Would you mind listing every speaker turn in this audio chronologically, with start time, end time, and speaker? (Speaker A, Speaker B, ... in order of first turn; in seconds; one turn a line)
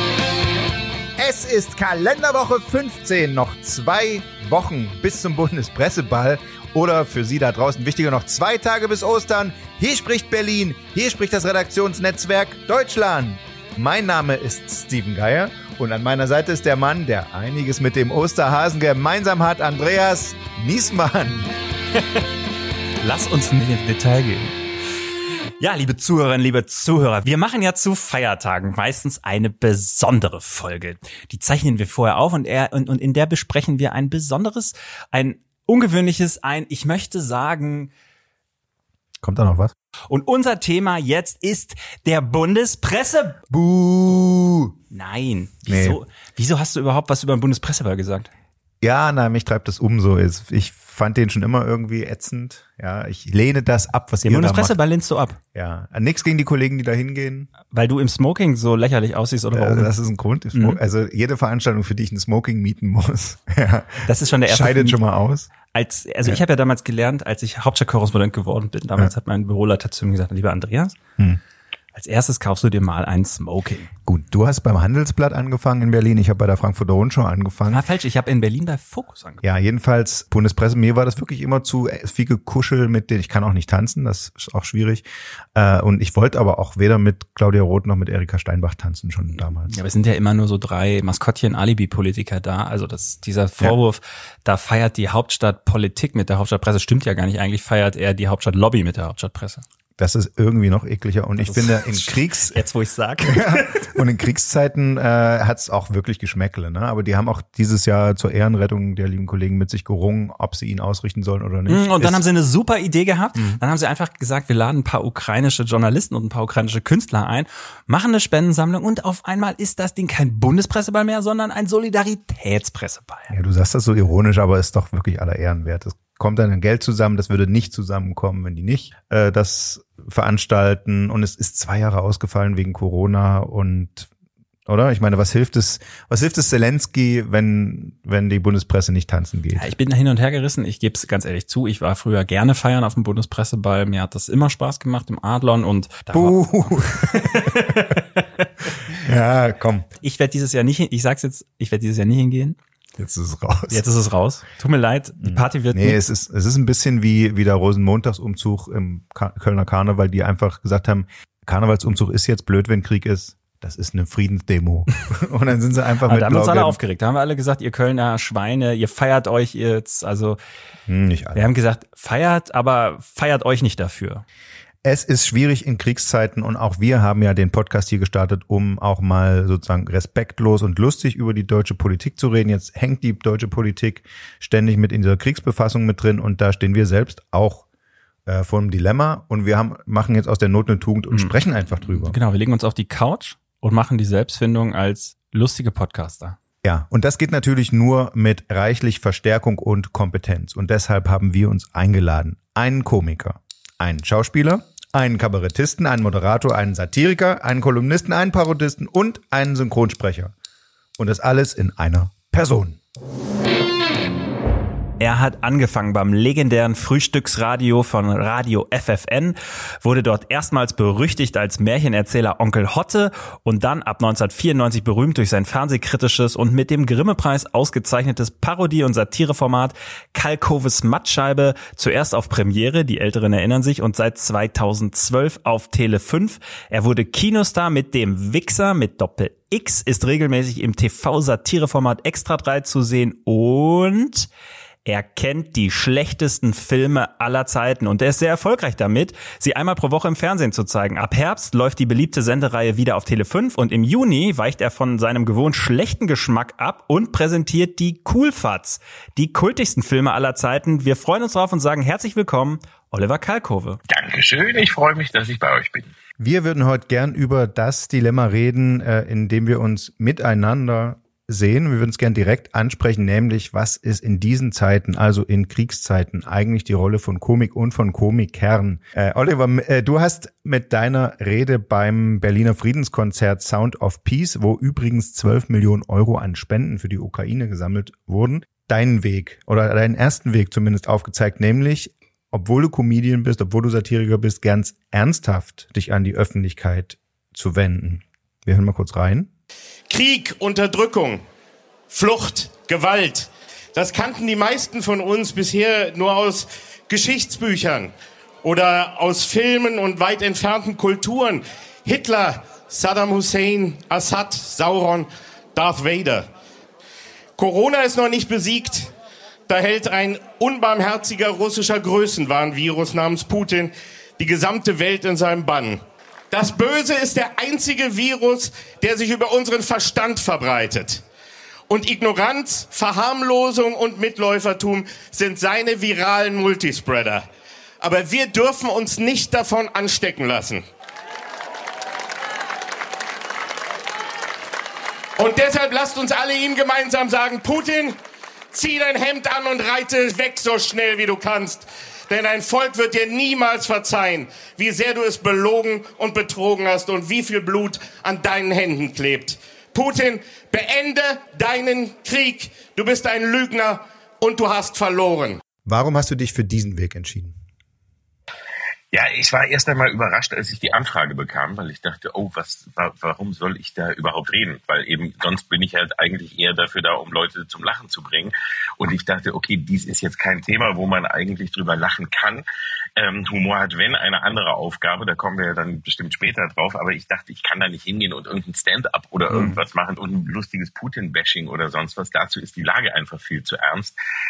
Speaker A: 1.2-21.5
Speaker B: 23.0-24.6
Speaker B: 25.6-37.9
Speaker A: 39.2-39.7
Speaker B: 40.1-43.4
Speaker A: 43.5-44.8
Speaker B: 44.9-48.3
Speaker A: 45.7-46.0
Speaker A: 48.8-54.8
Speaker B: 54.2-55.4
Speaker A: 55.5-57.5
Speaker B: 57.7-59.9
Speaker A: 59.5-65.5
Speaker B: 60.5-60.8
Speaker B: 64.1-65.0
Speaker B: 65.7-71.0
Speaker B: 72.0-73.9
Speaker A: 74.0-77.8
Speaker B: 77.7-79.4
Speaker A: 79.4-85.0
Speaker A: 85.5-89.7
Speaker B: 89.7-99.6
Speaker A: 100.0-102.6
Speaker B: 101.4-103.9
Speaker A: 103.2-112.2
Speaker B: 111.7-123.3
Speaker A: 113.4-113.6
Speaker A: 123.3-134.1
Speaker A: 134.7-139.7
Speaker B: 139.6-146.4
Speaker A: 146.1-147.7
Speaker B: 147.0-148.0
Speaker A: 149.0-149.9
Speaker B: 150.0-152.6
Speaker A: 153.0-153.8
Speaker B: 153.7-156.0
Speaker A: 155.2-166.8
Speaker B: 166.1-170.4
Speaker A: 170.9-171.5
Speaker B: 171.4-174.2
Speaker A: 174.8-187.7
Speaker A: 188.3-192.2
Speaker B: 191.1-196.4
Speaker A: 196.6-210.3
Speaker A: 211.0-212.8
Speaker B: 215.0-244.3
Speaker B: 244.9-263.8
Speaker C: 263.9-265.9
Speaker A: 266.2-299.3
Speaker D: 299.9-301.2
Speaker D: 301.9-307.9
Speaker D: 308.4-316.3
Speaker D: 317.4-318.9
Speaker D: 319.5-331.0
Speaker D: 331.7-337.3
Speaker D: 337.8-340.6
Speaker D: 345.2-348.0
Speaker D: 348.5-365.4
Speaker A: 365.6-367.4
Speaker C: 368.9-382.4
Speaker C: 383.0-393.9
Speaker B: 389.3-389.6